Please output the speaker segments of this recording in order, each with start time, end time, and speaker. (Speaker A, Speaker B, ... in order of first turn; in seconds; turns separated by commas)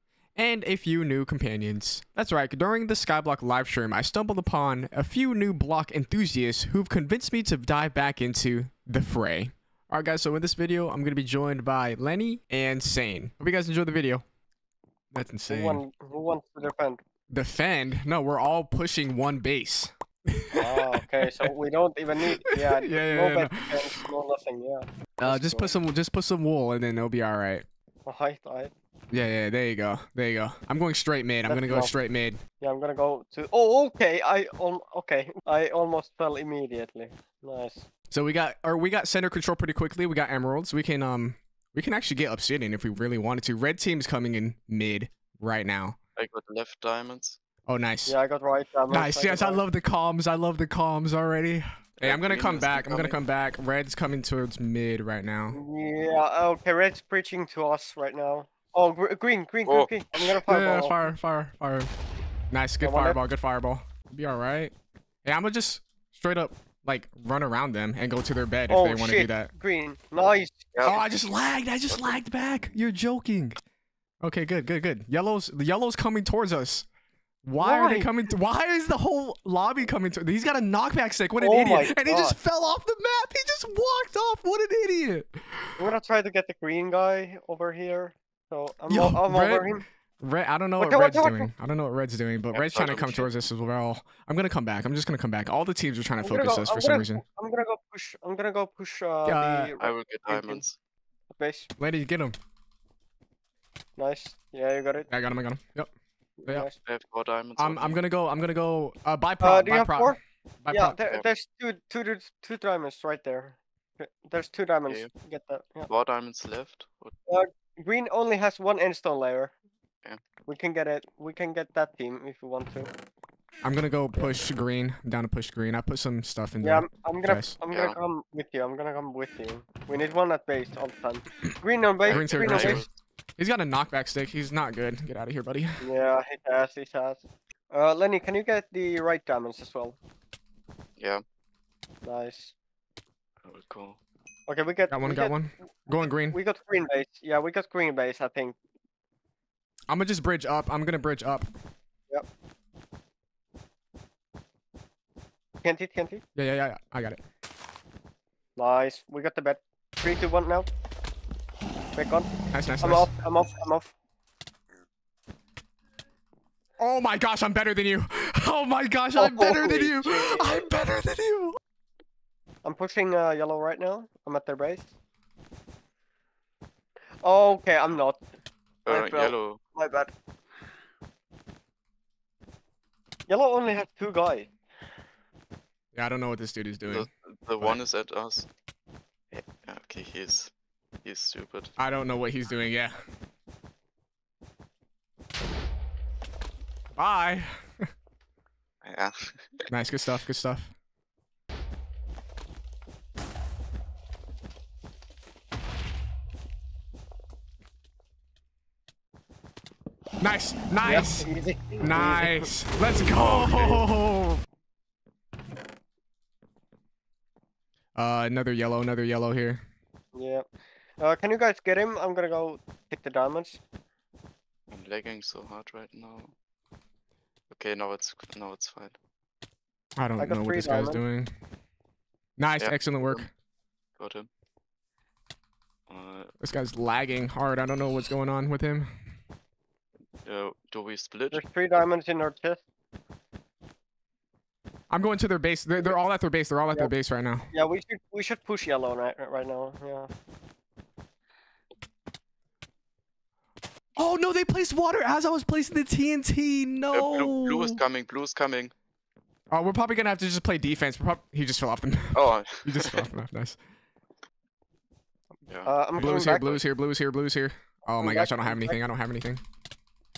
Speaker A: 0.4-14.2, Speaker A: 15.1-15.8, Speaker B: 15.5-17.0, Speaker A: 17.3-21.5, Speaker B: 20.5-25.8, Speaker A: 22.2-24.1, Speaker A: 25.2-27.6, Speaker B: 28.1-28.7, Speaker A: 29.1-32.4, Speaker B: 31.4-31.9, Speaker B: 32.6-37.9, Speaker A: 38.1-46.0, Speaker C: 46.2-47.4, Speaker A: 47.7-48.1, Speaker B: 48.1-49.6, Speaker A: 48.9-55.6, Speaker C: 52.0-53.2, Speaker B: 55.5-61.0, Speaker A: 60.1-61.9, Speaker A: 62.5-64.7, Speaker B: 62.8-63.2, Speaker A: 65.2-69.5, Speaker B: 68.7-71.0, Speaker C: 70.7-71.0, Speaker A: 70.8-73.6, Speaker A: 74.2-76.9, Speaker A: 77.4-85.8, Speaker B: 77.6-78.1, Speaker B: 81.4-82.4, Speaker B: 85.8-89.8, Speaker A: 88.9-97.2, Speaker B: 90.8-91.5, Speaker C: 92.5-93.3, Speaker B: 96.2-100.7, Speaker A: 99.3-99.7, Speaker C: 99.8-100.8, Speaker B: 101.3-101.7, Speaker A: 101.8-102.3, Speaker B: 104.0-105.1, Speaker A: 105.1-105.9, Speaker B: 106.4-106.8, Speaker C: 106.8-108.0, Speaker A: 107.6-111.0, Speaker B: 109.4-115.9, Speaker C: 115.9-117.1, Speaker B: 117.3-119.5, Speaker B: 120.5-122.9, Speaker A: 123.6-127.6, Speaker B: 126.6-132.8, Speaker C: 132.1-133.0, Speaker A: 132.1-132.8, Speaker A: 133.4-135.8, Speaker B: 135.8-140.0, Speaker B: 142.0-142.5, Speaker C: 143.4-144.0, Speaker B: 144.5-148.6, Speaker A: 144.9-146.4, Speaker A: 149.9-151.5, Speaker B: 155.6-156.2, Speaker A: 156.4-157.2, Speaker B: 158.6-160.7, Speaker B: 161.9-163.9, Speaker A: 162.5-163.1, Speaker A: 166.8-171.6, Speaker B: 169.2-170.7, Speaker B: 172.6-174.9, Speaker B: 177.2-178.2, Speaker C: 178.9-179.6, Speaker B: 178.9-180.1, Speaker B: 183.3-184.5, Speaker A: 185.9-187.1, Speaker C: 186.9-188.5, Speaker C: 189.3-190.5, Speaker C: 191.0-191.7, Speaker A: 191.8-193.0, Speaker A: 197.0-197.9, Speaker C: 198.8-199.6, Speaker A: 199.7-200.7, Speaker A: 210.2-211.3, Speaker B: 210.8-212.3, Speaker A: 211.8-214.4, Speaker C: 213.1-213.9, Speaker A: 218.0-219.6, Speaker B: 220.2-220.5, Speaker B: 221.0-223.6, Speaker C: 224.7-226.3, Speaker C: 227.5-228.9, Speaker A: 230.0-231.3, Speaker B: 230.2-231.0, Speaker A: 232.4-233.3, Speaker C: 232.6-233.2, Speaker C: 234.0-234.3, Speaker C: 235.9-236.3, Speaker A: 236.4-238.9, Speaker C: 240.2-241.4, Speaker B: 241.3-242.7, Speaker A: 244.9-247.5, Speaker B: 247.5-250.1, Speaker A: 254.0-257.8, Speaker C: 256.9-258.7, Speaker A: 259.5-263.6, Speaker C: 262.1-263.0, Speaker C: 265.5-266.1, Speaker B: 265.7-266.6, Speaker A: 266.0-269.4, Speaker B: 267.9-268.8